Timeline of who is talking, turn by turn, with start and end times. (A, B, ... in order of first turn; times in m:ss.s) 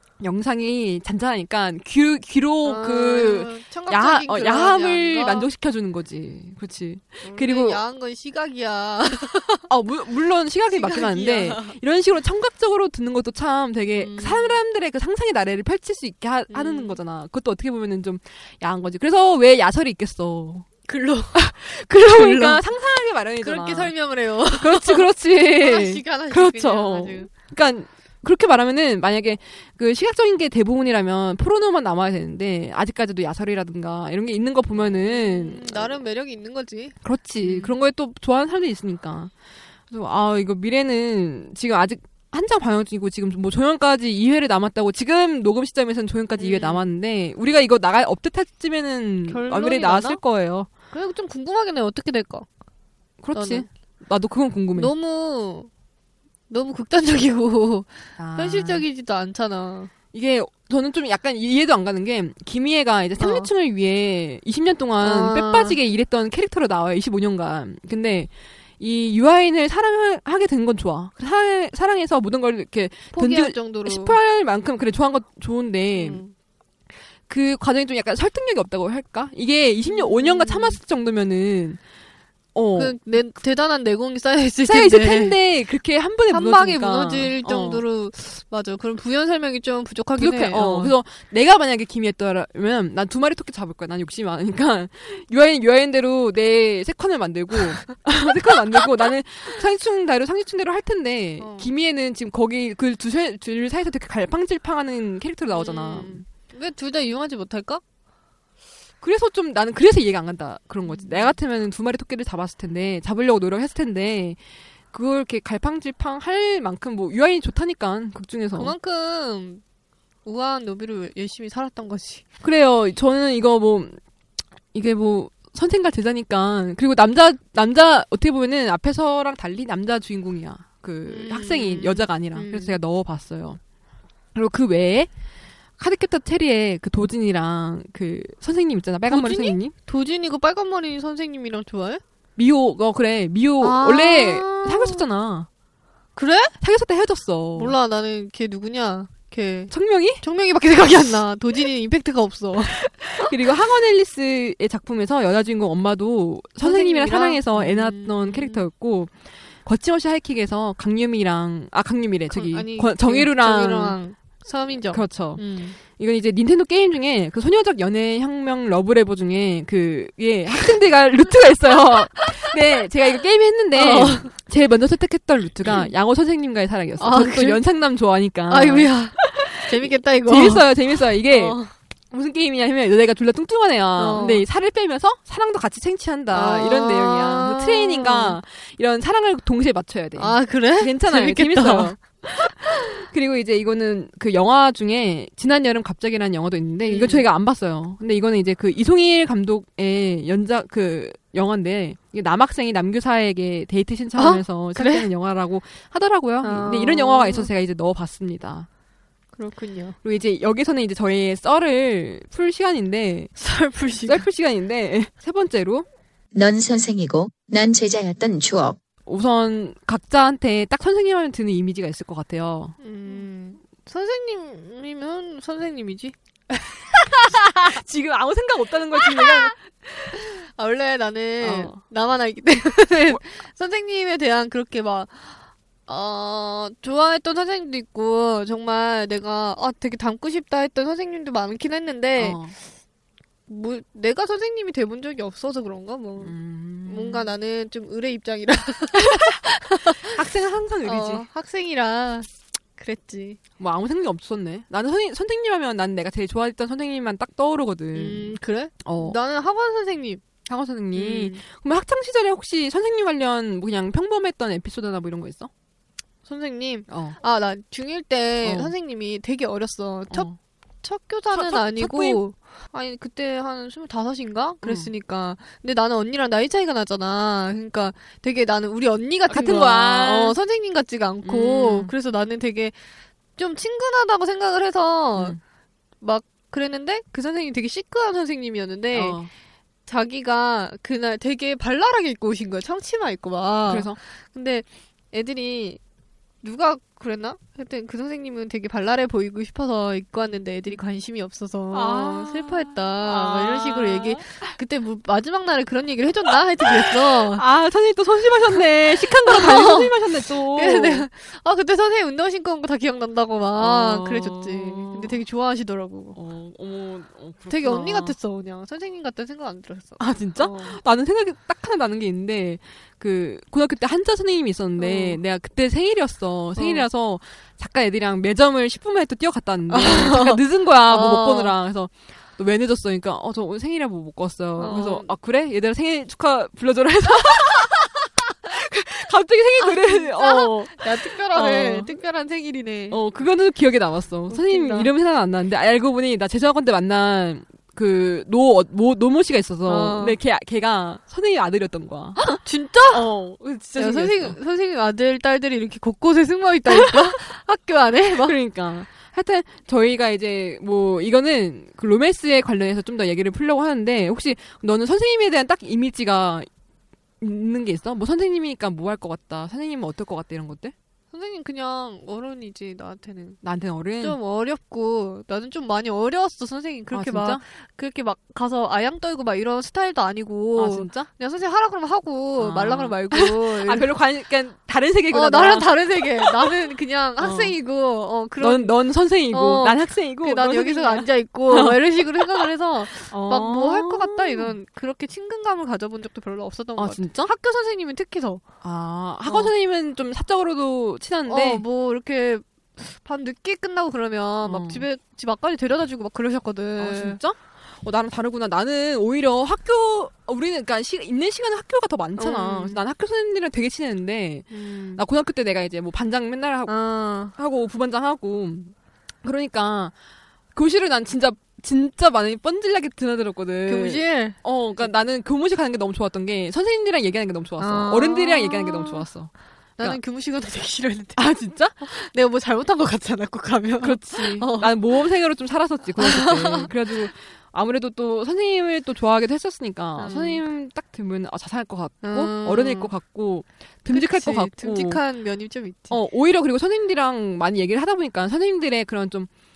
0:00.2-0:07.8 A
0:02.6-0:05.5 B
0:07.2-0:09.7 B
0:09.7-0:20.7 A
0:10.7-0:11.8 B
0:14.0-0:14.6 B
0:16.5-0:17.0 B
0:20.9-0:21.4 B
0:21.3-0:23.9 A
0:22.0-0:22.6 B
0:23.4-0:27.3 B
0:24.6-0:36.0 A
0:34.7-0:37.8 B
0:37.0-0:39.3 A
0:39.9-0:50.7 A
0:46.4-0:46.8 B
0:49.3-0:50.2 B
0:50.9-0:52.4 B
0:53.2-0:54.9 A
0:53.3-0:53.6 B
0:54.7-0:55.7 B
0:56.5-0:59.9 B
0:58.2-0:58.8 A
1:00.1-1:16.2 A
1:03.2-1:03.5 B
1:05.0-1:05.8 B
1:13.1-1:14.2 B
1:15.9-1:16.3 B
1:17.3-1:21.8 A
1:19.8-1:20.8 B
1:22.5-1:23.0 A
1:22.8-1:25.3 B
1:24.6-1:27.8 A
1:26.3-1:30.9 B
1:30.2-1:46.2 A
1:41.4-1:41.7 B
1:45.5-1:47.8 B
1:49.0-1:54.4 A
1:50.8-1:51.3 B
1:54.9-1:58.7 A
1:58.5-1:59.6 B
2:00.2-2:02.2 B
2:02.4-2:04.0 A
2:04.7-2:13.6 A
2:11.0-2:12.8 B
2:14.3-2:15.1 A
2:15.8-2:19.7 A
2:19.1-2:22.0 B
2:22.4-2:25.5 A
2:23.6-2:25.0 B
2:26.2-2:26.5 B
2:26.6-2:27.7 A
2:27.6-2:33.3 B
2:29.7-2:30.2 A
2:32.7-2:39.1 A
2:36.6-2:38.7 B
2:39.6-2:44.0 A
2:42.3-2:45.8 B
2:44.9-3:01.6 A
2:53.7-2:54.3 B
2:55.6-2:55.9 B
2:57.0-2:57.6 B
2:58.5-3:00.7 B
3:01.2-3:01.7 B
3:02.1-3:28.7 A
3:04.0-3:04.4 B
3:06.3-3:08.4 B
3:10.2-3:12.0 B
3:16.8-3:17.2 B
3:24.2-3:25.1 B
3:26.4-3:27.5 B
3:29.3-3:30.0 B
3:30.0-3:33.3 A
3:33.4-3:34.2 B
3:34.0-3:35.8 A
3:36.3-3:38.8 C
3:39.0-3:42.8 A
3:42.8-3:46.1 B
3:46.9-3:50.1 A
3:49.0-3:49.5 B
3:50.1-4:02.4 B
3:51.4-3:51.8 A
4:02.2-4:02.5 A
4:03.5-4:10.2 B
4:06.2-4:07.3 A
4:09.0-4:09.4 A
4:10.0-4:11.2 A
4:10.8-4:13.4 B
4:13.6-4:19.2 A
4:17.9-4:20.2 B
4:20.4-4:25.5 A
4:20.9-4:21.4 B
4:26.2-4:30.3 B
4:26.9-4:27.2 A
4:28.4-4:28.7 A
4:30.1-4:30.4 A
4:30.8-4:42.7 B
4:31.3-4:32.2 A
4:34.6-4:34.9 A
4:39.3-4:40.4 A
4:41.2-4:41.9 A
4:43.4-4:45.4 B
4:46.0-4:49.2 B
4:48.9-4:49.3 A
4:49.8-4:55.8 B
4:53.7-4:54.0 A
4:56.4-5:07.4 B
5:01.7-5:04.6 A
5:06.6-5:11.1 A
5:09.0-5:10.0 B
5:10.5-5:16.2 B
5:13.6-5:15.2 A
5:16.1-5:18.2 A
5:17.5-5:20.8 B
5:20.0-5:41.9 A
5:24.8-5:25.2 B
5:26.6-5:26.8 B
5:29.7-5:31.5 B
5:34.6-5:35.1 B
5:39.6-5:43.0 B
5:42.9-5:52.3 A
5:44.3-5:44.9 B
5:49.7-5:50.2 B
5:52.2-5:53.1 B
5:52.9-5:54.4 A
5:53.8-5:58.4 B
5:56.7-5:57.2 A
5:58.2-6:06.5 A
6:07.2-6:10.7 A
6:11.1-6:13.4 B
6:13.4-6:14.2 A
6:14.0-6:23.9 B
6:16.9-6:17.4 A
6:20.6-6:21.1 A
6:22.4-6:26.5 A
6:25.1-6:28.7 B
6:27.2-6:27.5 A
6:28.4-6:32.5 A
6:29.3-6:38.4 B
6:33.0-6:34.5 A
6:36.8-6:37.3 A
6:38.6-6:41.6 A
6:39.2-6:39.5 B
6:41.3-6:47.2 B
6:44.4-6:44.8 A
6:46.8-6:59.9 A
6:52.2-6:52.8 B
6:54.5-6:55.0 B
6:56.7-6:57.3 B
7:00.5-7:10.0 A
7:03.7-7:04.9 B
7:07.6-7:09.1 B
7:09.8-7:11.3 B
7:11.2-7:11.8 A
7:11.8-7:15.0 B
7:13.8-7:25.0 A
7:16.0-7:16.7 B
7:20.0-7:20.4 B
7:22.0-7:22.9 B
7:23.9-7:26.0 B
7:25.9-7:29.3 A